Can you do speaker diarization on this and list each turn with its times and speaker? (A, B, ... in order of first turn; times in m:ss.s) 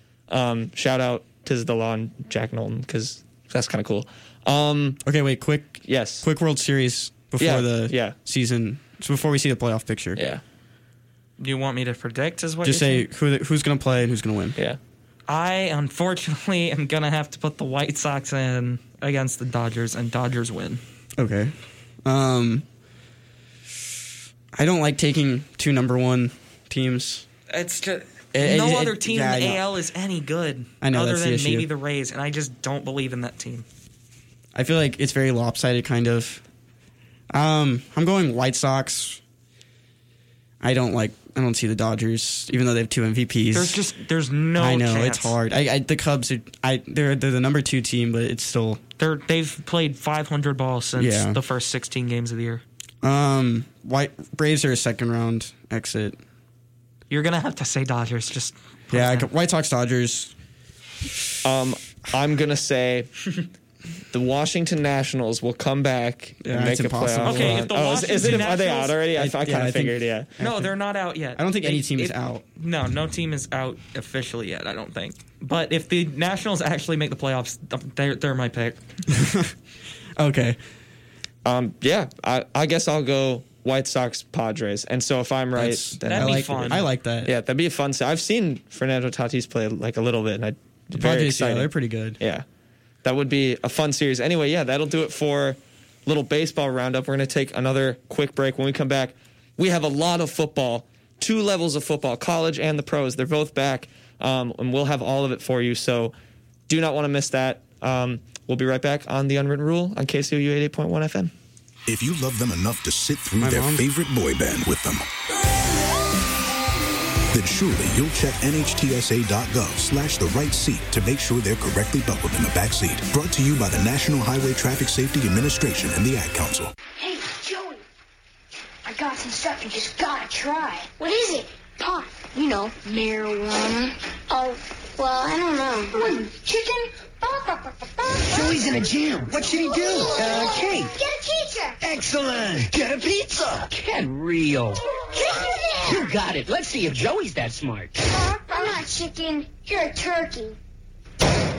0:00.3-0:05.0 A
0:05.0-0:10.2 B
0:05.8-0:06.2 A
0:07.4-0:08.1 A
0:10.2-0:10.4 A
0:11.4-0:13.0 C
0:12.6-0:14.6 B
0:15.3-0:20.8 C
0:21.2-0:21.5 B
0:22.0-0:22.6 B
0:24.5-0:27.2 B
0:27.5-0:33.6 C
0:28.3-0:29.6 B
0:30.8-0:31.7 B
0:34.5-0:36.4 B
0:37.3-0:39.2 B
0:40.6-0:43.8 B
0:43.5-0:45.4 C
0:44.6-0:48.8 B
0:49.0-0:52.6 C
0:51.0-0:51.4 B
0:53.0-0:56.2 B
0:57.1-0:59.3 C
0:58.9-1:00.3 B
1:01.4-1:03.1 A
1:04.1-1:10.3 A
1:06.4-1:07.7 B
1:07.2-1:09.0 C
1:08.2-1:08.5 B
1:09.1-1:10.7 B
1:10.4-1:18.8 C
1:11.3-1:12.4 B
1:19.1-1:19.5 B
1:20.2-1:20.6 B
1:21.4-1:32.4 A
1:25.5-1:27.3 B
1:26.1-1:26.9 C
1:30.9-1:32.2 B
1:33.0-1:46.1 A
1:46.7-1:51.3 A
1:51.9-1:55.1 D
1:53.4-1:53.8 B
1:57.3-2:06.7 D
2:07.0-2:07.8 E
2:08.8-2:18.6 E
2:18.2-2:21.0 F
2:19.5-2:21.8 E
2:21.8-2:24.8 F
2:25.1-2:26.1 E
2:25.8-2:28.0 F
2:28.1-2:30.6 E